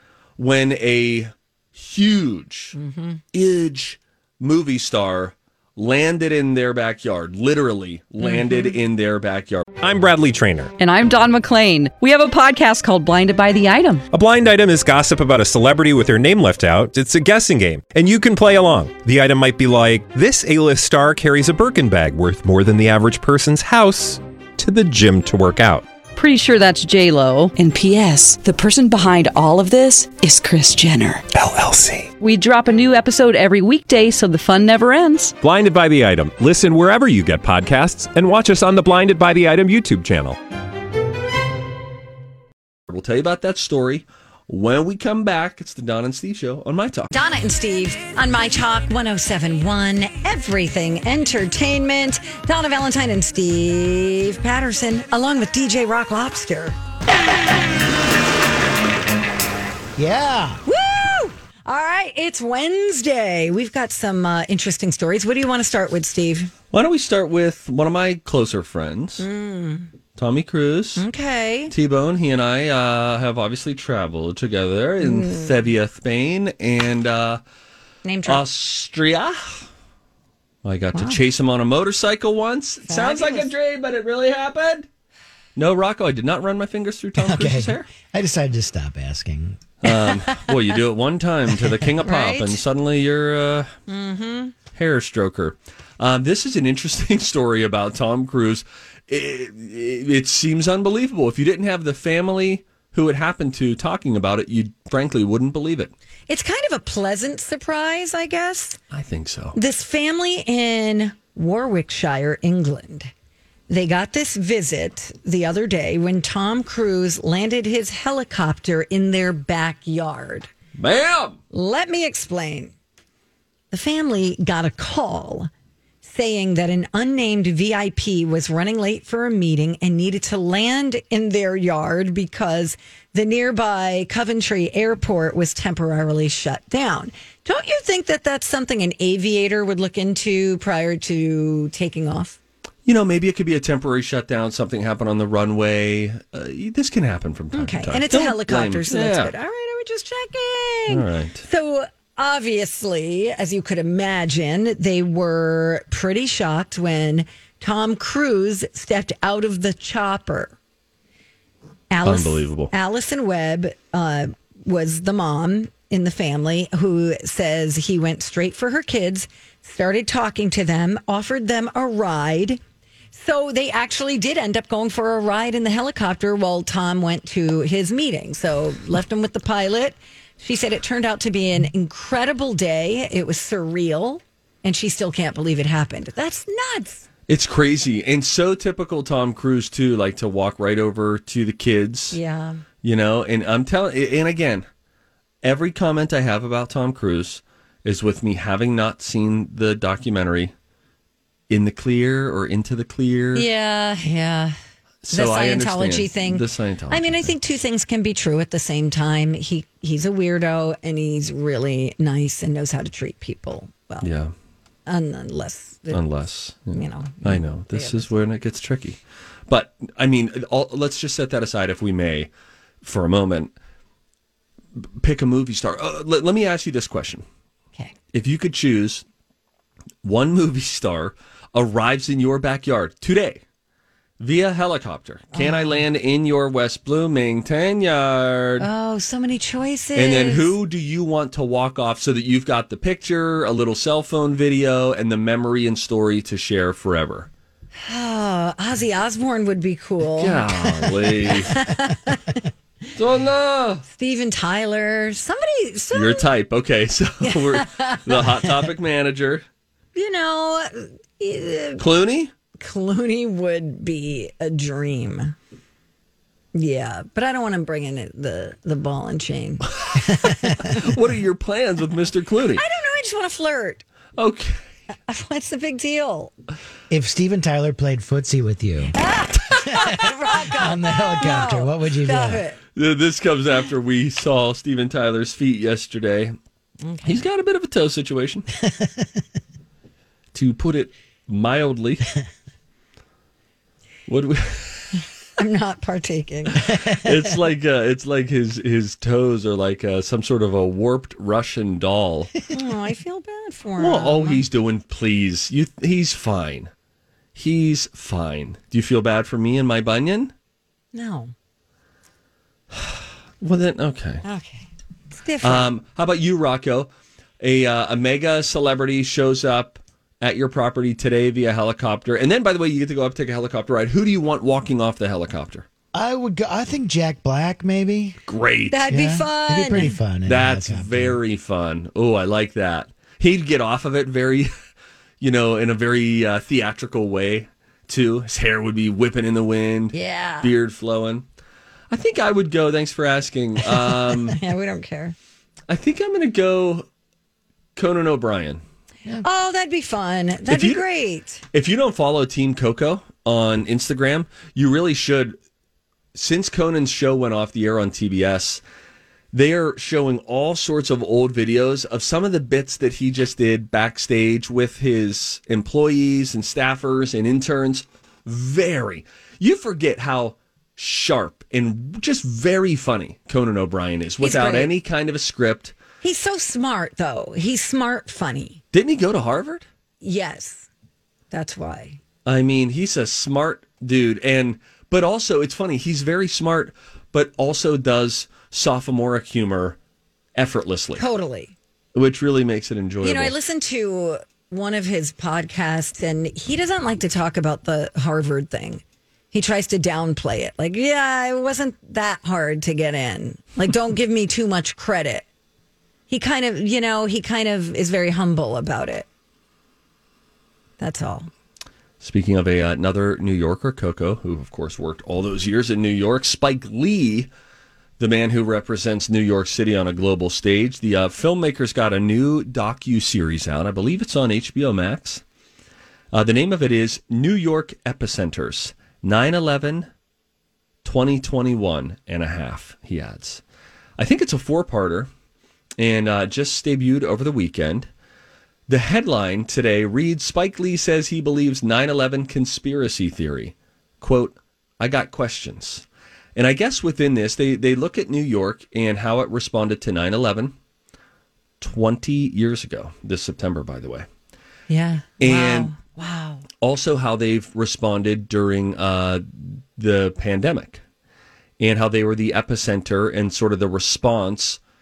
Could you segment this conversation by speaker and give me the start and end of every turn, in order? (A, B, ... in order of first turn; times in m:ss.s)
0:00.4-0:02.8 A
0:02.7-0:03.2 B
0:03.3-0:09.6 A
0:08.2-0:08.8 B
0:09.8-0:10.7 C
0:10.8-0:14.0 D
0:14.1-0:25.9 C
0:26.1-0:31.2 D
0:31.3-0:32.1 C
0:32.2-0:35.4 D
0:35.4-0:40.4 C
0:42.9-0:47.1 A
0:47.1-0:56.8 B
1:00.0-1:00.6 E
1:00.7-1:06.5 B
1:06.7-1:09.3 A
1:09.2-1:09.9 B
1:10.2-1:11.0 A
1:11.0-1:11.7 B
1:11.7-1:17.4 A
1:15.0-1:15.6 B
1:18.0-1:18.4 B
1:18.3-1:19.7 A
1:20.6-1:24.9 A
1:20.9-1:21.2 B
1:22.9-1:23.5 B
1:25.6-1:27.9 A
1:27.2-1:29.6 E
1:29.8-1:33.7 A
1:32.0-1:32.6 B
1:33.9-1:34.5 B
1:34.8-1:45.9 A
1:46.3-1:48.8 B
1:48.9-1:49.6 A
1:49.6-1:53.1 B
1:53.7-2:00.5 B
2:00.8-2:01.4 A
2:01.5-2:02.7 B
2:03.7-2:05.5 B
2:06.0-2:22.4 B
2:22.8-2:29.3 A
2:27.5-2:40.6 B
2:30.9-2:31.4 A
2:41.9-2:52.6 B
2:42.0-2:42.7 A
2:53.1-3:07.0 B
3:07.3-3:12.2 A
3:12.1-3:12.6 B
3:12.8-3:14.7 A
3:15.4-3:20.5 A
3:21.5-3:23.5 A
3:23.4-3:24.6 B
3:25.0-3:27.3 A
3:25.1-3:34.1 B
3:34.0-3:34.3 A
3:34.9-3:36.0 B
3:35.9-3:42.3 A
3:36.7-3:38.1 B
3:42.8-3:43.5 A
3:44.8-3:47.2 A
3:48.1-3:49.0 A
3:50.0-3:53.4 A
3:54.2-3:58.7 A
3:55.3-3:55.8 B
3:58.6-4:00.5 B
4:00.0-4:07.3 A
4:07.8-4:12.4 B
4:10.2-4:11.6 A
4:12.9-4:13.8 A
4:13.9-4:16.3 B
4:15.9-4:19.4 A
4:17.2-4:18.2 B
4:20.0-4:21.8 B
4:21.8-4:22.3 A
4:22.6-4:25.4 B
4:26.6-4:30.5 B
4:29.8-4:32.6 A
4:30.2-4:30.8 E
4:32.6-4:33.8 B
4:34.2-4:34.6 A
4:35.1-4:36.3 B
4:36.9-4:39.0 E
4:38.9-4:42.6 B
4:40.0-4:42.4 E
4:42.8-4:46.4 A
4:46.8-4:47.2 B
4:47.0-4:48.5 A
4:48.6-4:49.2 E
4:50.3-4:52.1 A
4:54.1-4:55.0 A
4:55.4-4:56.8 B
4:56.6-5:02.4 A
4:56.7-4:57.0 E
5:02.5-5:04.4 B
5:03.8-5:06.7 A
5:07.4-5:10.3 A
5:10.9-5:11.3 B
5:12.7-5:14.2 A
5:14.2-5:15.7 B
5:15.4-5:16.9 A
5:17.4-5:25.7 A
5:25.9-5:28.2 E
5:28.3-5:28.9 A
5:28.7-5:30.0 B
5:28.9-5:31.2 E
5:30.3-5:34.5 A
5:35.2-5:41.2 A
5:39.9-5:40.5 B
5:41.9-5:44.4 A
5:43.6-5:45.2 B
5:45.7-5:46.9 A
5:47.8-5:48.6 A
5:49.2-5:51.4 B
5:50.5-5:50.8 A
5:51.5-5:55.4 A
5:56.2-5:58.6 A
5:59.3-6:15.8 A
6:14.2-6:14.7 B
6:16.0-6:18.6 B
6:18.7-6:19.7 A
6:20.0-6:20.7 B
6:21.3-6:22.0 B
6:22.2-6:29.8 A
6:30.4-6:31.0 A
6:31.0-6:31.5 B
6:32.0-6:33.4 A
6:33.0-6:45.3 B
6:46.1-6:49.1 B
6:50.8-6:51.3 B
6:52.0-6:57.3 A
6:58.0-7:05.2 A
7:06.1-7:09.9 A
7:10.8-7:13.4 A
7:14.0-7:15.1 A
7:15.8-7:17.9 A
7:18.7-7:25.8 A
7:26.4-7:30.6 A
7:31.6-7:34.1 A
7:34.7-7:36.4 B
7:35.2-7:35.7 A
7:36.6-7:40.8 A
7:41.6-7:44.6 A